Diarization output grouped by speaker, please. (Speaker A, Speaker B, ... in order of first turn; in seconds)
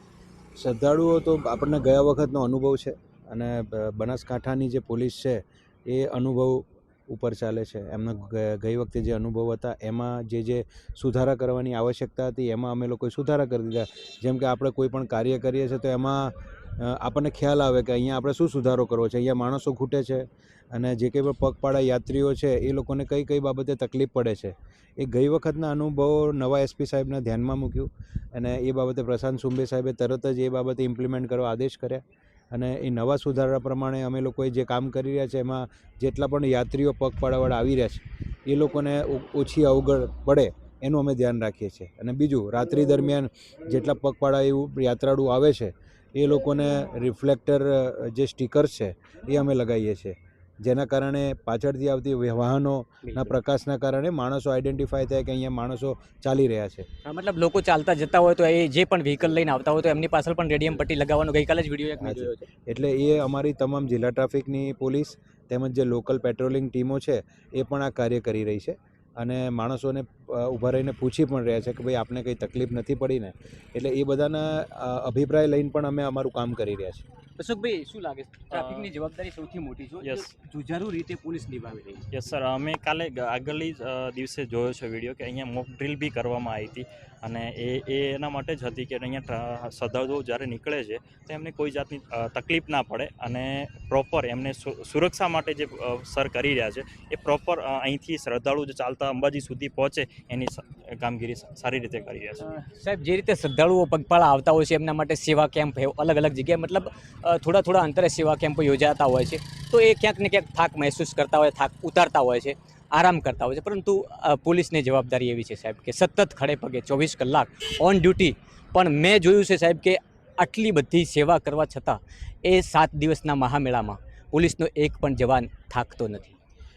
Speaker A: 0.6-56.9, 62.0-77.0
Speaker B: 53.0-53.3, 57.0-62.5, 77.4-82.0, 102.4-126.3
Speaker C: 78.5-78.9, 80.0-80.3, 82.1-102.5